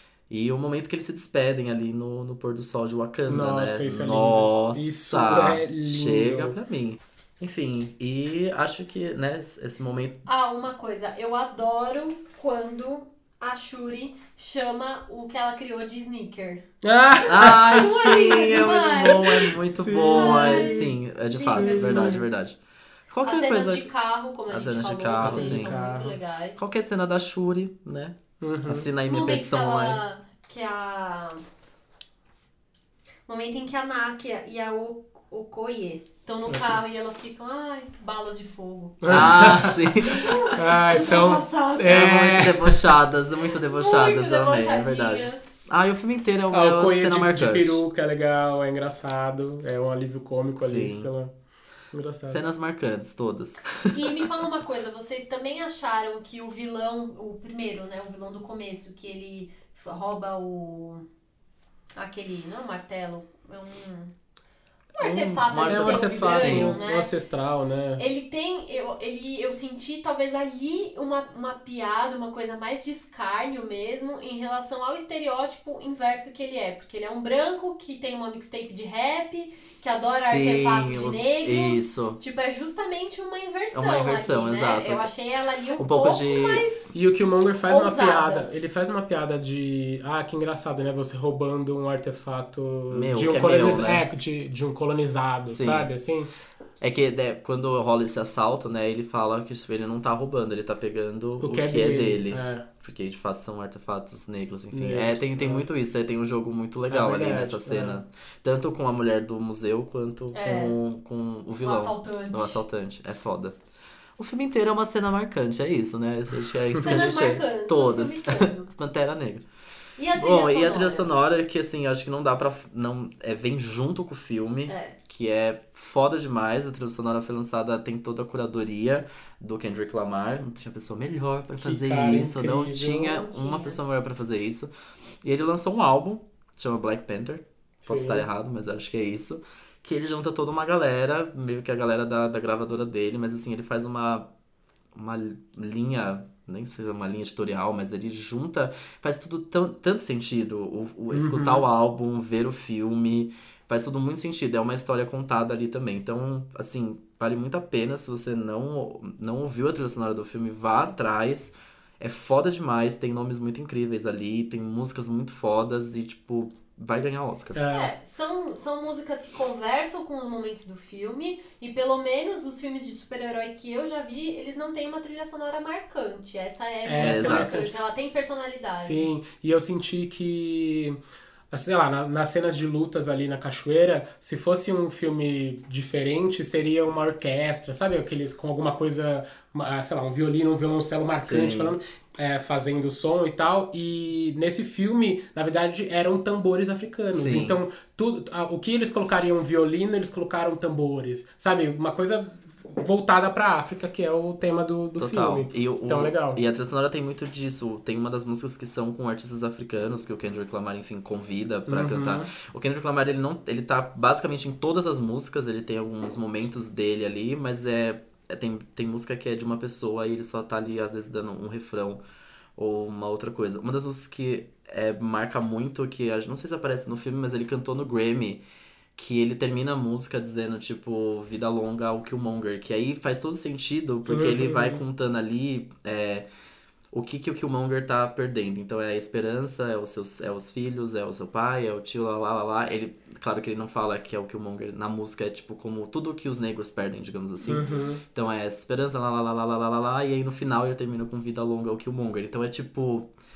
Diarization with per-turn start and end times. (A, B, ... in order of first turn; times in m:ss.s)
0:00.3-0:10.2 A
0:03.3-0:06.6 B
0:10.3-0:16.6 C
0:16.8-0:20.9 B
0:17.3-0:23.9 A
0:17.4-0:19.5 C
0:20.1-0:22.2 C
0:21.5-0:22.2 B
0:23.2-0:26.7 C
0:24.5-0:25.8 A
0:25.2-0:26.2 B
0:26.6-0:30.0 A
0:28.4-0:28.9 B
0:29.1-0:31.4 C
0:33.3-0:42.5 C
0:36.5-0:36.7 B
0:39.0-0:39.9 B
0:39.1-0:40.5 A
0:40.5-0:42.9 B
0:41.8-0:47.8 A
0:43.4-0:45.6 C
0:46.5-0:51.3 B
0:50.6-0:51.1 A
0:51.9-0:52.4 B
0:52.3-0:54.3 A
0:53.9-1:01.0 C
1:02.0-1:04.1 C
1:05.0-1:07.1 C
1:05.0-1:06.8 A
1:05.6-1:08.0 B
1:08.0-1:27.0 C
1:20.1-1:22.2 A
1:23.7-1:25.1 A
1:25.8-1:26.6 A
1:26.9-1:36.3 B
1:27.7-1:28.5 C
1:32.9-1:34.0 A
1:35.5-1:35.9 A
1:36.8-1:53.6 A
1:41.4-1:42.7 B
1:44.7-1:45.6 B
1:46.9-1:48.0 B
1:50.3-1:50.8 C
1:51.6-1:52.6 C
1:54.2-1:59.4 A
1:56.8-1:58.7 C
2:00.0-2:01.1 C
2:00.2-2:14.7 A
2:04.7-2:05.0 C
2:11.6-2:13.2 B
2:13.1-2:13.8 C
2:15.2-2:24.3 A
2:17.8-2:18.3 B
2:25.0-2:47.6 A
2:31.1-2:31.7 B
2:47.6-2:47.9 B
2:47.7-2:59.1 C
2:56.8-2:57.8 B
2:57.0-2:57.5 A
2:58.7-3:01.0 B
3:01.5-3:26.4 B
3:11.2-3:11.8 A
3:17.1-3:17.6 A
3:25.0-3:42.0 A
3:31.7-3:32.3 B
3:42.6-3:48.4 A
3:49.0-3:56.3 A
3:54.1-3:54.8 B
3:56.9-4:13.1 A
4:07.4-4:08.0 B